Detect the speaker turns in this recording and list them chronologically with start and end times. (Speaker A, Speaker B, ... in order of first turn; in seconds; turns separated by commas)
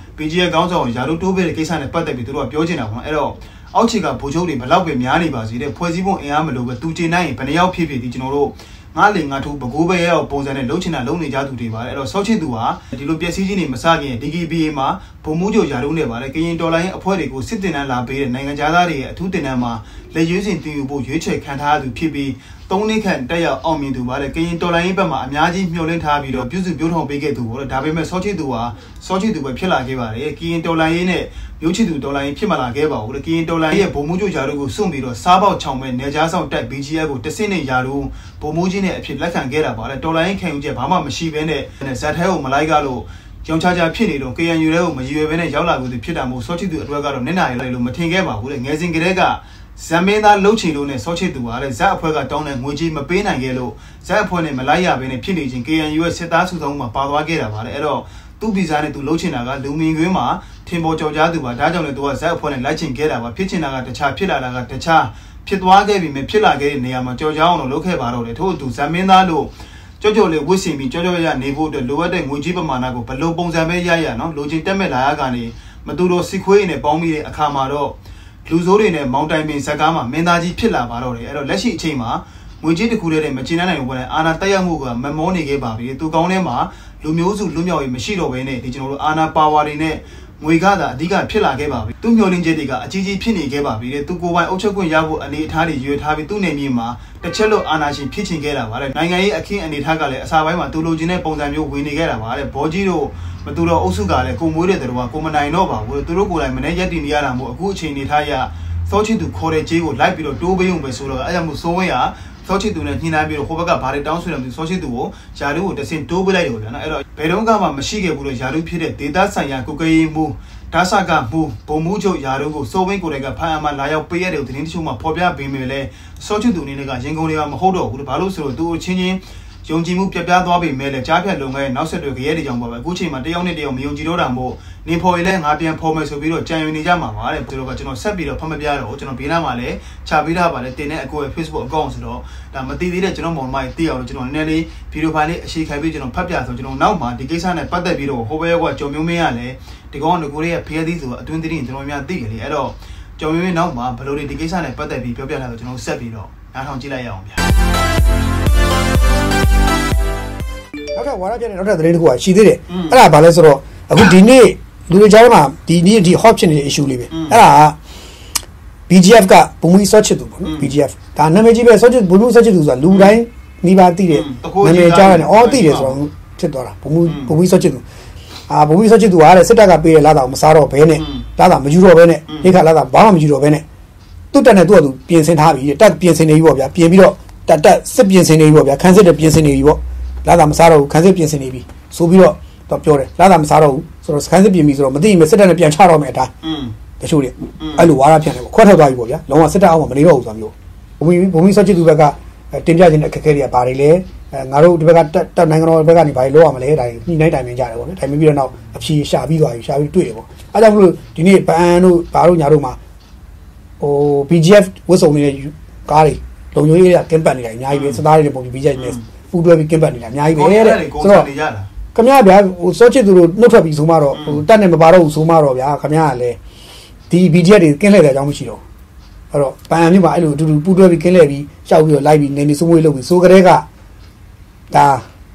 Speaker A: 0.2-157.4, Speaker B: 160.9-167.8, Speaker A: 162.7-163.0, Speaker A: 167.1-167.4, Speaker B: 168.9-177.8, Speaker A: 170.4-170.7, Speaker A: 172.9-173.2, Speaker A: 174.1-176.0, Speaker A: 177.1-177.3, Speaker B: 178.5-183.7, Speaker A: 181.0-181.3, Speaker A: 182.3-182.5, Speaker B: 184.3-196.3, Speaker A: 196.4-196.8, Speaker B: 197.0-212.8, Speaker A: 197.6-197.9, Speaker B: 213.8-221.3, Speaker A: 217.7-218.0, Speaker A: 218.8-219.0, Speaker A: 220.3-221.7, Speaker B: 221.9-226.4, Speaker A: 224.1-224.4, Speaker B: 227.1-228.6, Speaker B: 229.3-233.7, Speaker B: 234.7-235.1